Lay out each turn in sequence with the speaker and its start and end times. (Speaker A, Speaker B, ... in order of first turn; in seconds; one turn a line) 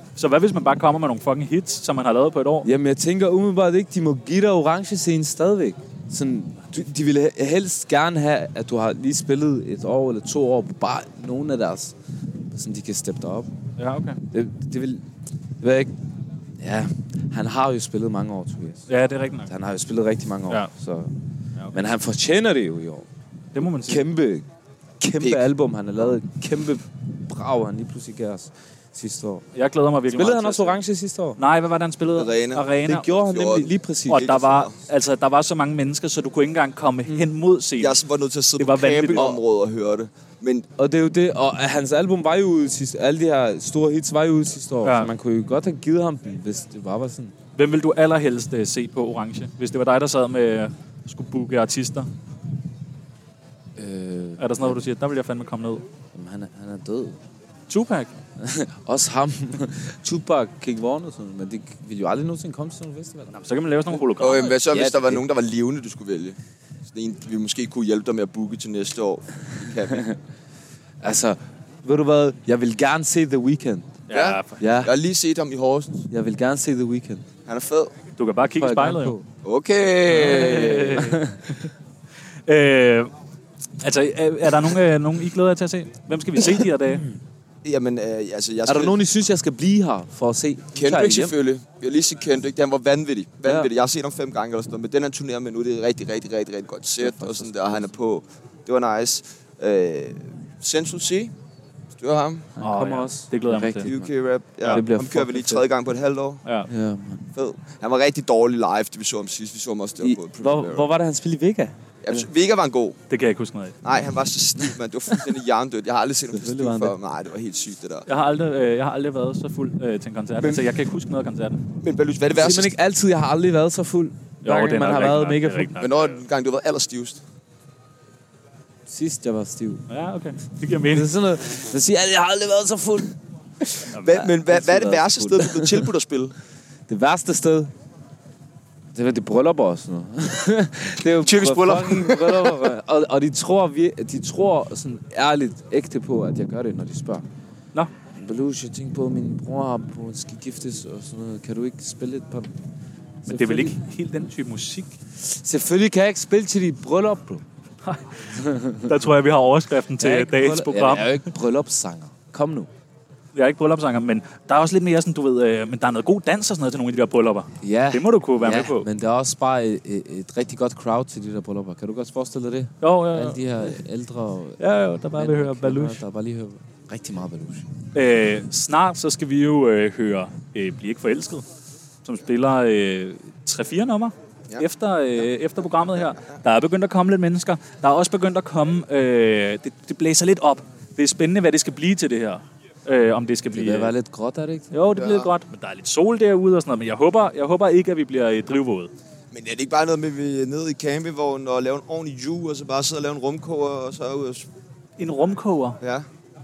Speaker A: 0.1-2.7
Speaker B: 2.6-11.9
Speaker B: 12.5-13.5
Speaker A: 13.8-14.2
Speaker B: 14.3-15.1
Speaker B: 15.6-15.9
Speaker B: 16.6-18.9
Speaker A: 18.9-19.5
Speaker B: 19.4-21.1
Speaker B: 21.7-23.1
Speaker A: 23.5-24.1
Speaker B: 23.6-24.5
Speaker B: 25.0-29.4
Speaker C: 25.2-25.5
Speaker A: 29.5-30.8
Speaker B: 30.1-31.4
Speaker A: 31.4-33.1
Speaker C: 32.1-34.7
Speaker B: 32.8-34.4
Speaker A: 34.1-37.9
Speaker C: 37.8-40.6
Speaker A: 38.6-39.4
Speaker B: 40.8-47.3
Speaker A: 44.8-45.1
Speaker A: 47.5-52.1
Speaker B: 53.8-54.9
Speaker A: 54.4-55.8
Speaker B: 56.1-57.2
Speaker A: 57.7-58.1
Speaker B: 58.4-63.3
Speaker A: 63.3-64.5
Speaker C: 64.2-66.4
Speaker B: 64.6-65.2
Speaker C: 66.9-70.1
Speaker B: 71.0-74.0
Speaker A: 74.1-74.6
Speaker C: 74.1-76.1
Speaker B: 74.6-74.9
Speaker B: 76.1-77.2
Speaker C: 77.5-77.9
Speaker A: 78.2-79.2
Speaker B: 78.5-79.2
Speaker C: 79.4-81.1
Speaker A: 80.1-81.7
Speaker B: 81.0-81.3
Speaker A: 82.5-83.1
Speaker A: 83.8-87.0
Speaker B: 86.9-87.2
Speaker C: 87.6-89.0
Speaker B: 88.7-91.3
Speaker C: 90.7-101.3
Speaker B: 93.4-93.7
Speaker B: 97.0-97.9
Speaker C: 101.9-102.5
Speaker B: 102.5-104.1
Speaker A: 102.6-103.9
Speaker C: 103.8-106.4
Speaker B: 104.7-105.6
Speaker B: 106.7-107.3
Speaker C: 107.3-110.9
Speaker B: 110.0-112.3
Speaker C: 112.0-113.0
Speaker A: 113.1-113.8
Speaker C: 113.8-118.0
Speaker B: 116.3-117.0
Speaker A: 118.1-121.6
Speaker C: 121.8-122.7
Speaker B: 122.3-125.7
Speaker A: 124.4-126.2
Speaker C: 125.8-127.2
Speaker B: 128.9-129.8
Speaker A: 129.9-131.1
Speaker B: 130.9-133.2
Speaker C: 134.0-136.4
Speaker B: 134.0-135.9
Speaker B: 136.9-137.7
Speaker B: 138.9-147.2
Speaker C: 141.2-142.5
Speaker B: 148.1-152.5
Speaker B: 153.2-153.8
Speaker A: 153.3-154.9
Speaker B: 155.2-157.4
Speaker A: 157.8-158.3
Speaker B: 158.3-158.8
Speaker A: 158.8-161.2
Speaker B: 160.0-162.7
Speaker A: 163.3-168.9
Speaker B: 167.6-174.6
Speaker A: 172.8-173.5
Speaker A: 174.6-176.0
Speaker B: 175.1-177.7
Speaker A: 177.9-181.4
Speaker A: 182.0-193.9
Speaker B: 193.5-194.7
Speaker A: 194.7-198.9
Speaker C: 194.9-195.3
Speaker C: 199.3-204.4
Speaker A: 205.0-205.8
Speaker C: 205.8-206.1